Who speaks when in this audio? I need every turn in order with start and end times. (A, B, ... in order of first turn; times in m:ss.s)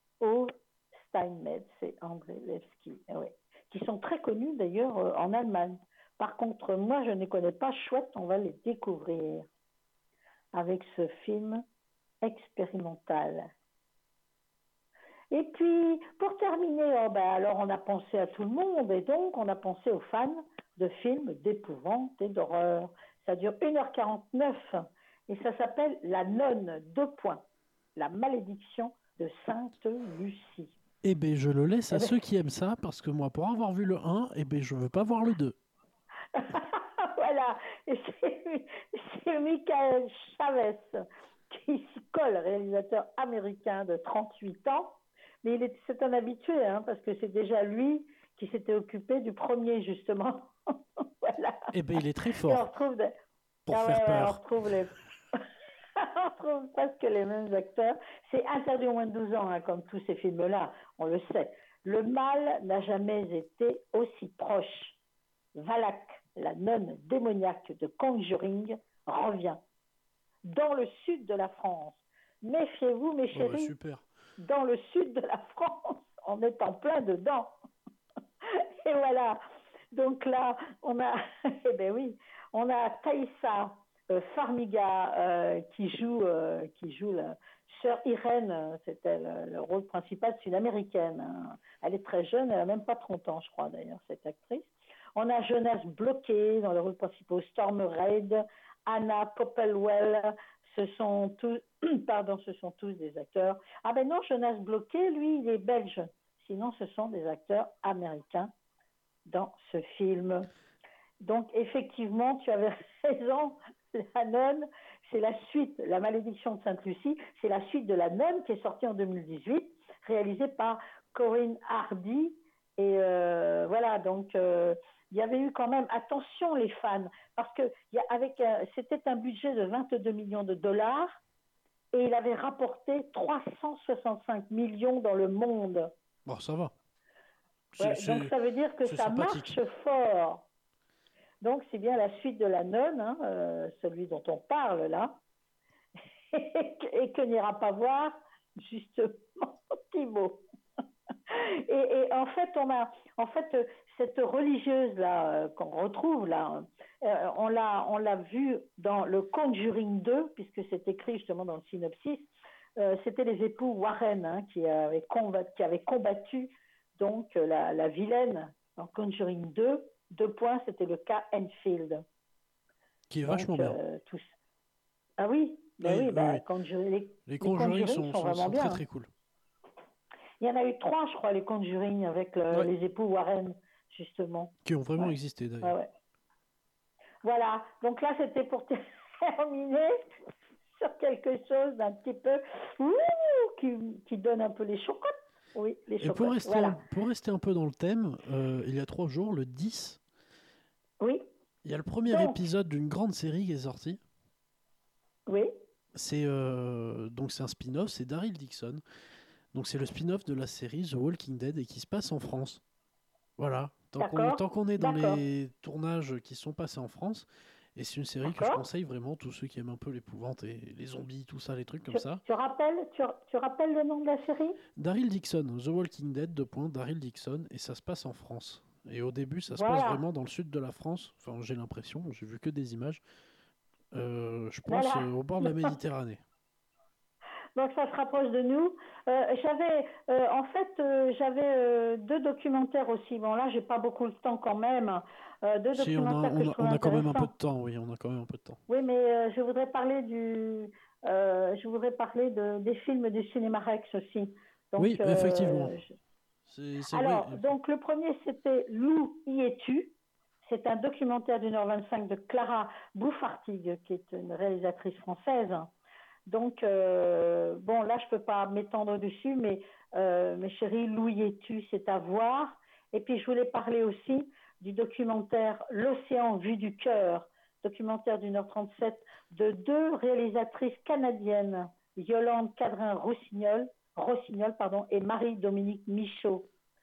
0:00.2-0:09.4 A
0:10.5-0:11.6 A
0:12.2-0:13.5 A
0:15.3-0:30.8 A
0:31.0-0:35.6 B
0:36.4-0:41.0 A
0:41.5-0:50.5 A
0:51.2-0:51.7 A
0:51.7-0:52.7 B
0:52.4-0:53.1 A
0:53.7-0:54.4 B
0:53.7-0:55.4 A
0:56.0-1:05.0 A
1:05.5-1:09.6 A
1:10.4-1:13.7 A
1:13.3-1:14.0 B
1:14.4-1:17.5 A
1:18.8-1:19.4 A
1:19.9-1:48.5 A
1:49.3-1:50.5 A
1:51.2-2:11.2 A
2:11.9-2:15.9 A
2:16.2-2:16.7 B
2:17.7-2:19.6 B
2:17.8-2:20.4 A
2:21.4-2:25.2 A
2:26.3-2:30.4 A
2:31.3-2:52.0 A
2:53.1-2:53.8 B
2:53.3-2:54.3 A
2:55.2-2:58.8 A
2:55.8-2:56.4 B
2:57.3-2:59.1 B
3:00.4-3:05.9 A
3:04.6-3:05.7 B
3:07.2-3:09.9 A
3:10.8-3:16.8 A
3:16.0-3:20.0 B
3:21.0-3:21.2 A
3:21.6-3:24.0 B
3:22.1-3:22.4 A
3:25.3-3:25.5 A
3:25.9-3:28.8 B
3:29.5-3:32.6 B
3:33.4-3:42.2 B
3:34.0-3:35.2 A
3:38.2-3:38.6 A
3:41.9-3:44.6 A
3:44.8-3:53.0 B
3:49.5-3:50.0 A
3:53.9-3:56.2 B
3:54.7-3:55.7 A
3:57.6-4:07.3 A
4:05.7-4:08.6 B
4:08.7-4:15.9 A
4:14.8-4:15.8 B
4:16.5-4:17.5 B
4:16.9-4:19.9 A
4:20.4-4:25.7 A
4:26.3-4:46.5 A